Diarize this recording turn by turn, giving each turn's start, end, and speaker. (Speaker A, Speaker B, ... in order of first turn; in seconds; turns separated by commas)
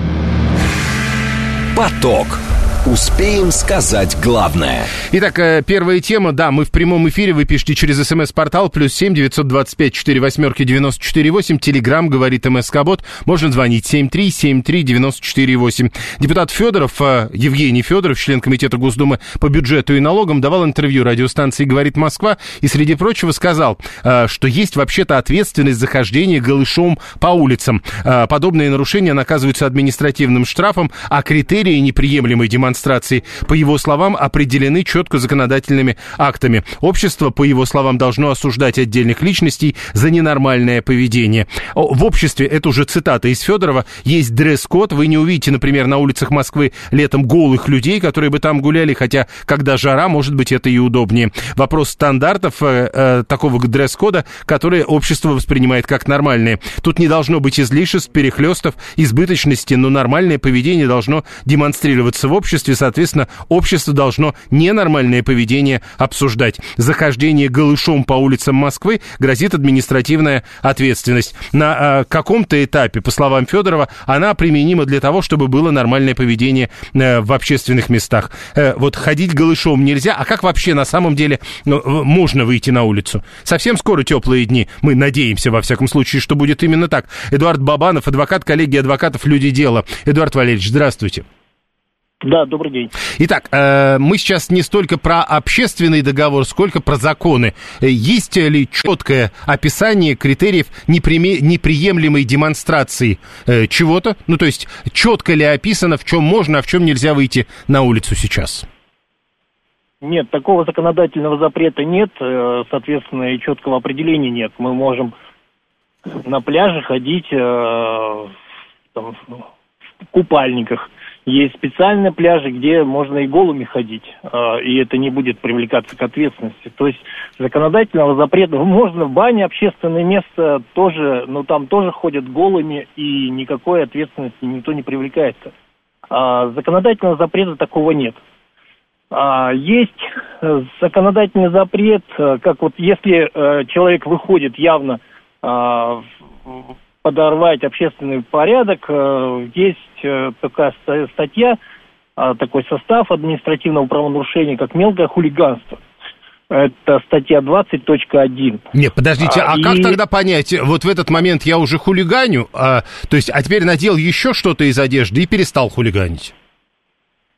Speaker A: 1.7-4.9, Speaker B: 5.1-91.2, Speaker C: 92.2-92.9, Speaker B: 93.2-108.7, Speaker C: 110.0-115.1, Speaker C: 116.2-118.3, Speaker C: 119.0-119.5, Speaker C: 120.1-135.5, Speaker C: 136.1-138.2, Speaker C: 139.1-151.6, Speaker C: 152.2-155.8, Speaker C: 156.5-158.6, Speaker B: 158.7-166.3, Speaker C: 159.2-160.0